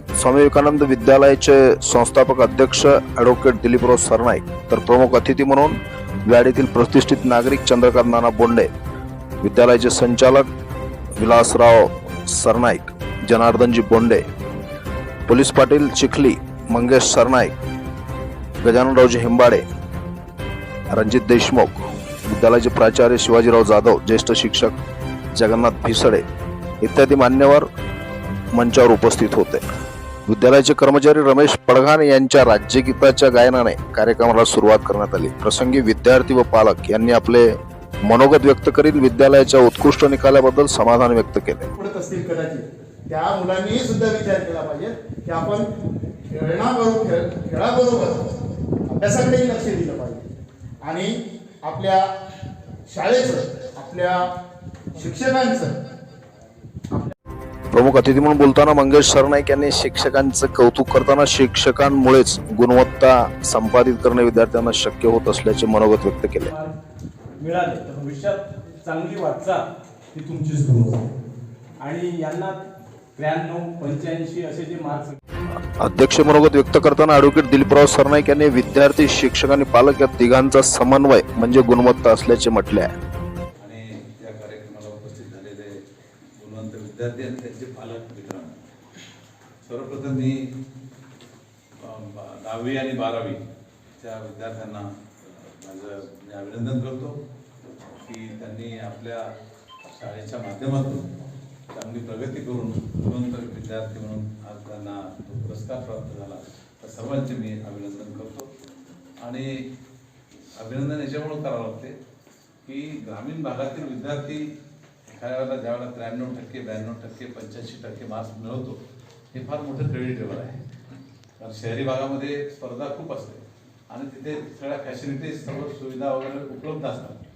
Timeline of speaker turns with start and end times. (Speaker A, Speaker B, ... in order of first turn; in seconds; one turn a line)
Speaker A: 0.1-5.8
Speaker A: 6.3-8.7
Speaker A: 9.4-10.4
Speaker A: 11.2-14.2
Speaker A: 15.3-17.5
Speaker A: 18.6-19.6
Speaker A: 20.9-24.8
Speaker A: 25.3-26.2
Speaker A: 26.8-27.7
Speaker A: 28.5-29.6
Speaker A: 30.3-37.5
Speaker A: 38.0-41.7
Speaker B: 41.7-45.7
Speaker B: 46.3-48.3
Speaker B: 48.9-50.2
Speaker B: 50.8-52.1
Speaker B: 52.9-54.3
Speaker B: 54.9-55.7
Speaker A: 57.7-66.5
Speaker C: 66.5-66.7
Speaker C: 67.4-71.1
Speaker C: 71.8-72.6
Speaker C: 73.2-75.2
Speaker A: 75.8-82.9
Speaker D: 83.6-85.8
Speaker D: 86.3-88.6
Speaker D: 89.6-90.5
Speaker D: 91.8-93.4
Speaker D: 94.0-97.2
Speaker D: 98.0-99.3
Speaker D: 99.8-101.1
Speaker D: 101.7-108.5
Speaker D: 109.2-109.6
Speaker D: 110.5-112.0
Speaker D: 112.6-114.5
Speaker D: 115.1-118.8
Speaker D: 119.3-120.6
Speaker D: 121.4-127.2